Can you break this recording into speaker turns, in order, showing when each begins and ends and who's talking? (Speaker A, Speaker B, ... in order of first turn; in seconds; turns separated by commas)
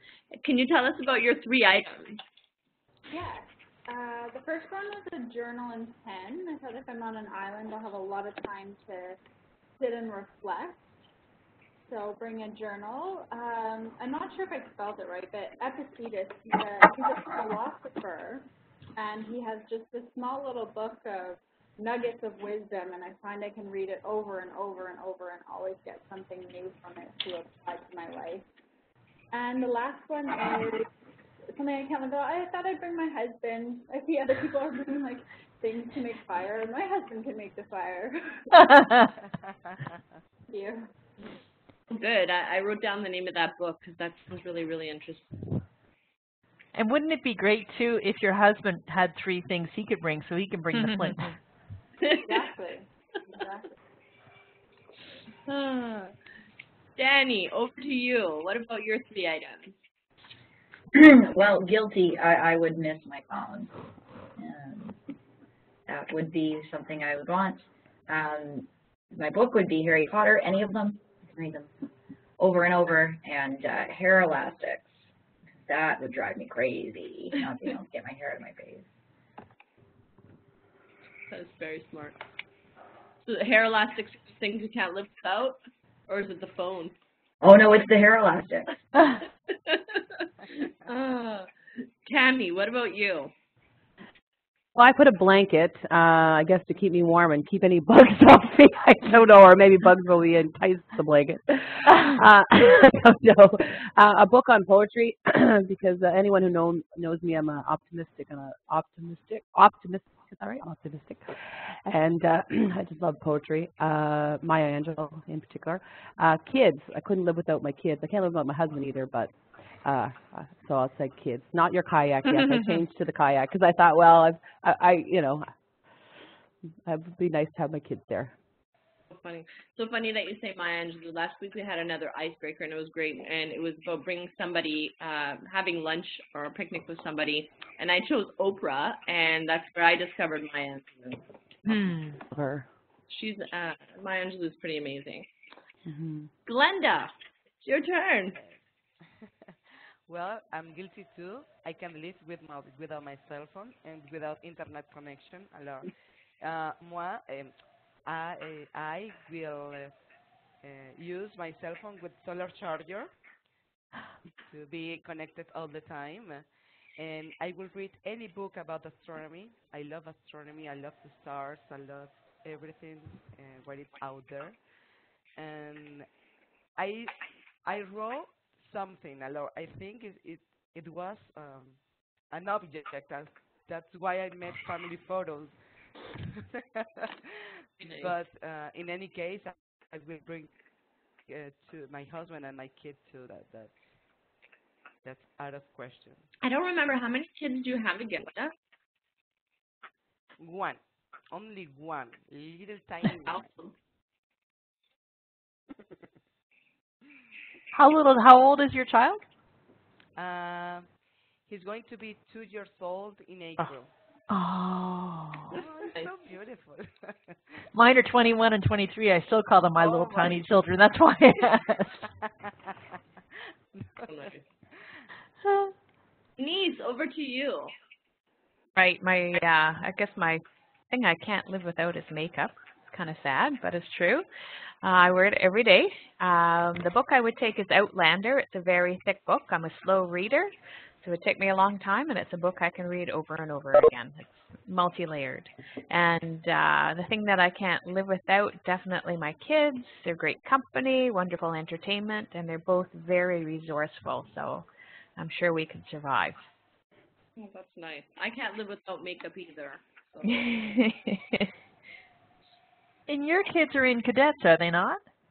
Speaker A: 0.3-2.2, Speaker B: 3.1-9.2, Speaker B: 9.8-10.9, Speaker B: 11.9-28.4, Speaker B: 29.3-30.9, Speaker B: 31.5-38.5, Speaker C: 38.5-39.1, Speaker B: 40.5-40.9, Speaker A: 41.9-45.5, Speaker C: 46.7-51.2, Speaker D: 50.8-51.3, Speaker A: 52.0-52.4, Speaker B: 52.2-53.7, Speaker A: 55.5-56.1, Speaker A: 57.0-59.8, Speaker E: 60.9-63.7, Speaker E: 64.3-65.0, Speaker E: 65.9-71.7, Speaker E: 72.4-75.1, Speaker E: 75.6-78.9, Speaker A: 81.3-82.2, Speaker A: 83.2-87.0, Speaker E: 87.4-88.8, Speaker A: 89.5-91.5, Speaker A: 92.0-93.3, Speaker F: 94.7-125.5, Speaker D: 122.2-122.8, Speaker F: 126.8-128.3, Speaker A: 129.1-141.2, Speaker D: 141.7-142.2, Speaker F: 142.3-142.7, Speaker A: 143.1-145.3, Speaker F: 145.8-146.3, Speaker A: 146.4-148.4, Speaker G: 148.3-149.6, Speaker G: 150.1-159.9, Speaker G: 160.6-163.1, Speaker G: 164.4-174.6, Speaker G: 175.3-176.1, Speaker G: 176.8-190.5, Speaker A: 187.8-188.1, Speaker G: 191.3-193.8, Speaker G: 195.0-196.2, Speaker A: 196.4-198.5, Speaker G: 200.4-203.5, Speaker A: 203.2-203.7, Speaker C: 207.7-209.2, Speaker G: 210.2-210.9, Speaker G: 211.4-213.9, Speaker C: 214.3-215.6, Speaker G: 215.5-217.7, Speaker C: 217.7-222.1, Speaker A: 219.8-220.4, Speaker G: 222.2-222.7, Speaker G: 223.7-224.1, Speaker A: 224.0-224.4, Speaker A: 226.4-227.7, Speaker D: 228.8-234.2, Speaker D: 234.8-256.5, Speaker A: 257.4-260.4, Speaker D: 260.2-261.5, Speaker C: 263.1-265.0